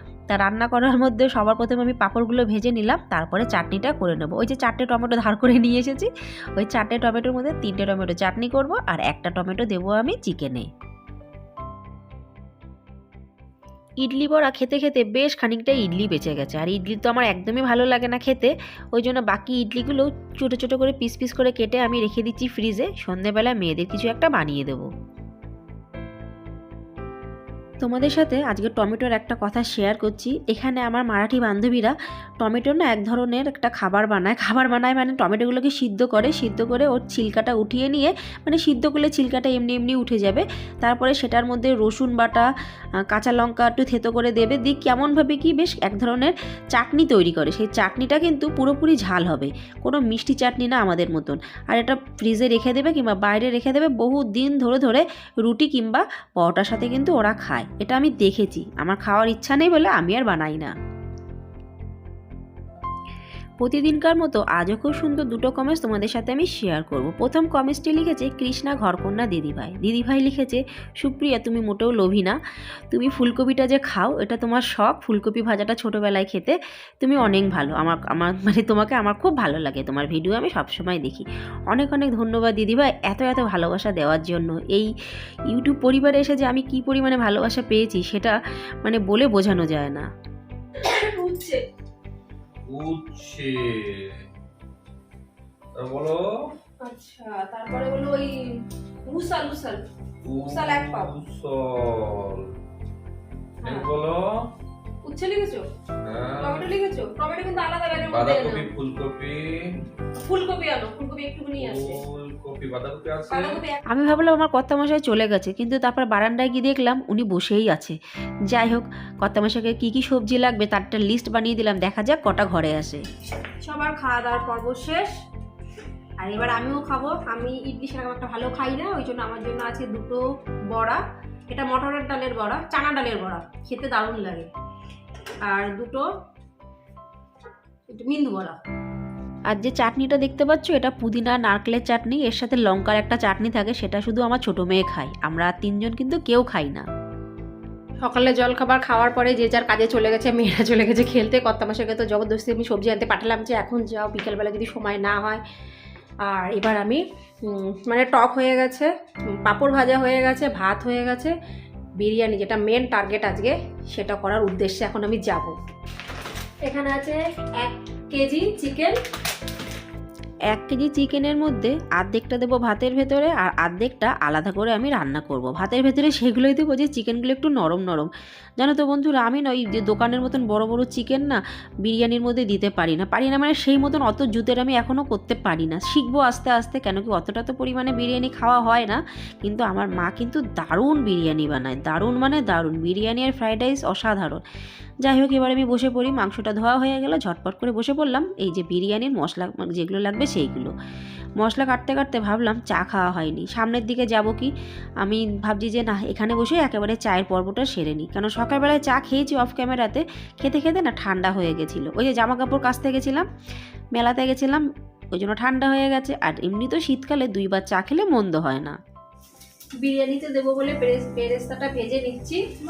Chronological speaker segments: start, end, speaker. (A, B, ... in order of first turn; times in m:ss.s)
0:00.3-0:10.7 A
0:14.0-0:24.9 A
0:27.8-0:42.5 A
0:43.1-1:00.7 A
1:03.6-1:12.4 A
1:12.9-1:24.9 A
1:25.5-1:30.1 A
1:30.8-1:31.6 B
1:32.7-1:34.1 C
1:35.8-1:36.2 C
1:36.8-1:38.3 B
1:39.1-1:39.8 B
1:40.2-1:42.5 C
1:40.5-1:41.1 B
1:43.6-1:43.9 B
1:43.7-1:44.3 C
1:45.0-1:45.6 B
1:46.0-1:46.7 C
1:46.4-1:48.7 B
1:48.0-1:49.8 C
1:50.2-1:52.0 B
1:51.6-1:53.6 C
1:53.3-1:53.8 B
1:53.9-1:58.0 A
1:58.5-2:03.0 A
2:03.6-2:05.1 B
2:06.2-2:14.5 B
2:15.5-2:16.0 B
2:17.9-2:18.6 B
2:19.5-2:26.8 A
2:28.0-2:35.4 B
2:36.2-2:38.9 B
2:39.4-2:41.3 B
2:42.0-2:45.5 B
2:46.6-2:49.0 B
2:50.5-3:14.4 A
3:15.0-3:20.7 A
3:21.4-3:24.5 A
3:25.0-3:33.3 A
3:33.9-3:38.8 A
3:39.8-3:42.4 B